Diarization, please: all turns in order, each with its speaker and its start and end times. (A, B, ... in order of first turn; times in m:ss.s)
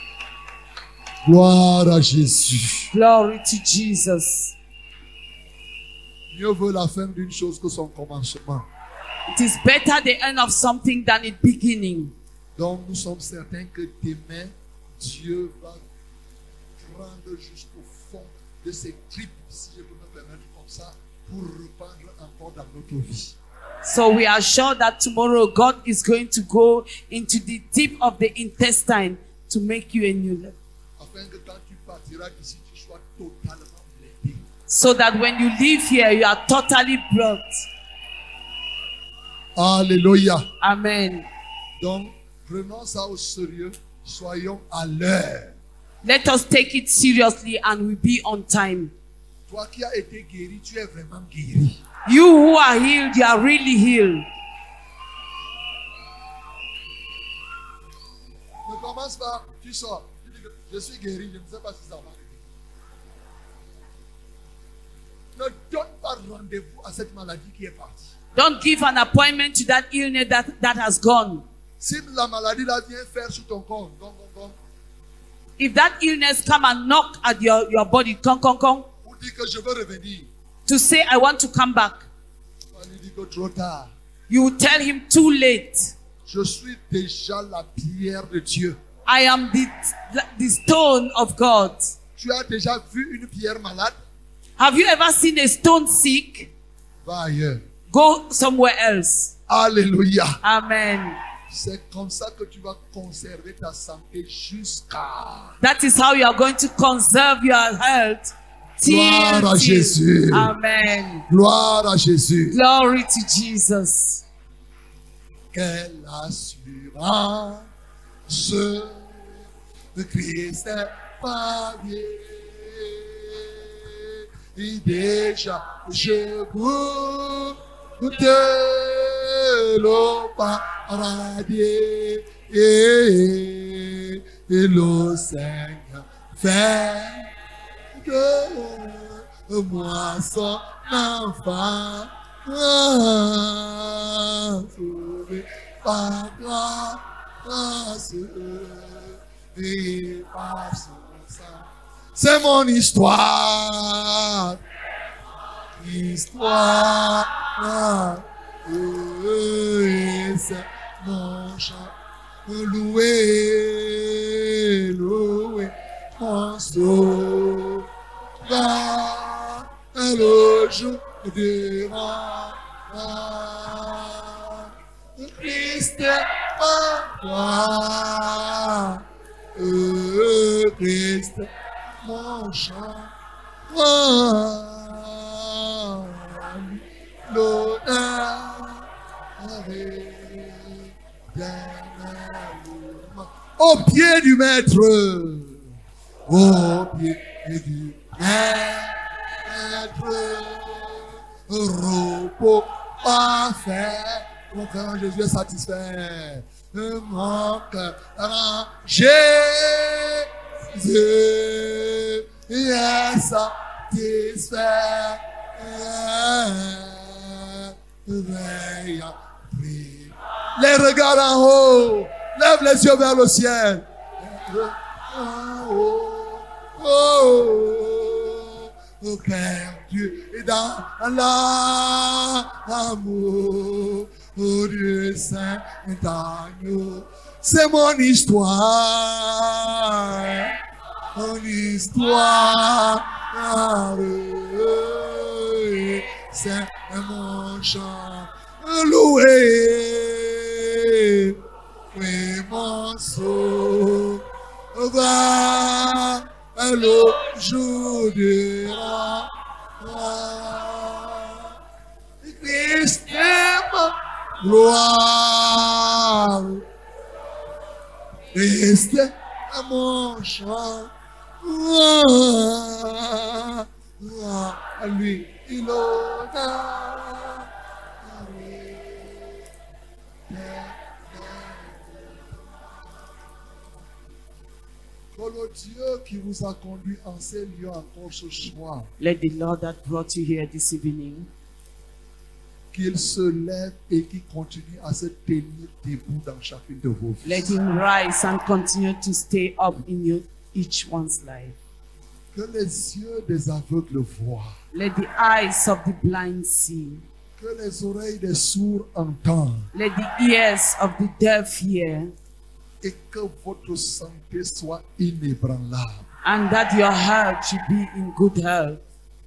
0:01.2-0:02.9 A
0:02.9-0:04.5 B
0:06.3-0:08.6 A
0:09.3-0:12.1 B
0:12.6-0:15.8 A
0:16.8-0:23.3 A
0:23.8-0:30.5 B
0:31.0-0:34.4 A
0:34.7-0:37.6 B
0:39.6-0:40.5 A
0:40.6-0:41.2 B
0:41.8-0:45.5 A
0:46.0-0:48.9 B
0:49.5-0:51.8 A
0:52.0-0:54.2 B
0:58.6-1:02.4 A
1:05.4-1:08.0 A
1:08.4-1:11.4 B
1:11.8-1:14.6 A
1:15.6-1:18.9 B
1:19.0-1:20.3 A
1:20.7-1:22.0 B
1:22.7-1:23.9 A
1:24.3-1:25.9 B
1:26.3-1:28.8 A
1:29.0-1:31.8 B
1:32.2-1:33.9 A
1:34.6-1:36.5 B
1:37.0-1:37.6 A
1:37.9-1:39.3 B
1:39.5-1:40.4 A
1:40.4-1:41.2 B
1:41.5-1:45.5 A
1:45.6-1:51.2 B
1:48.8-1:50.5 A
1:51.3-1:52.6 A
1:52.5-1:54.2 B
1:55.5-1:57.7 A
1:58.3-1:59.3 A
1:59.9-2:17.3 A
2:17.9-2:34.6 A
2:35.8-2:41.9 A
2:42.4-2:47.9 A
2:48.5-2:59.0 A
2:59.5-3:01.5 A
3:02.0-3:03.1 A
3:03.7-3:08.8 A
3:09.4-3:15.6 A
3:16.3-4:00.5 A
4:01.1-4:11.4 A
4:11.9-4:14.2 A
4:14.7-4:19.3 A
4:19.8-4:21.5 A
4:22.2-4:26.6 A
4:28.3-4:30.9 A
4:31.4-4:37.4 A
4:38.0-4:39.3 A
4:40.3-4:42.3 A
4:45.1-4:48.9 A
4:49.0-4:51.3 B
4:52.7-4:57.6 A
4:57.2-5:01.5 B
5:02.3-5:04.5 A
5:04.7-5:07.0 B
5:07.4-5:09.7 A
5:09.7-5:12.1 B
5:12.8-5:16.0 A
5:16.2-5:18.8 B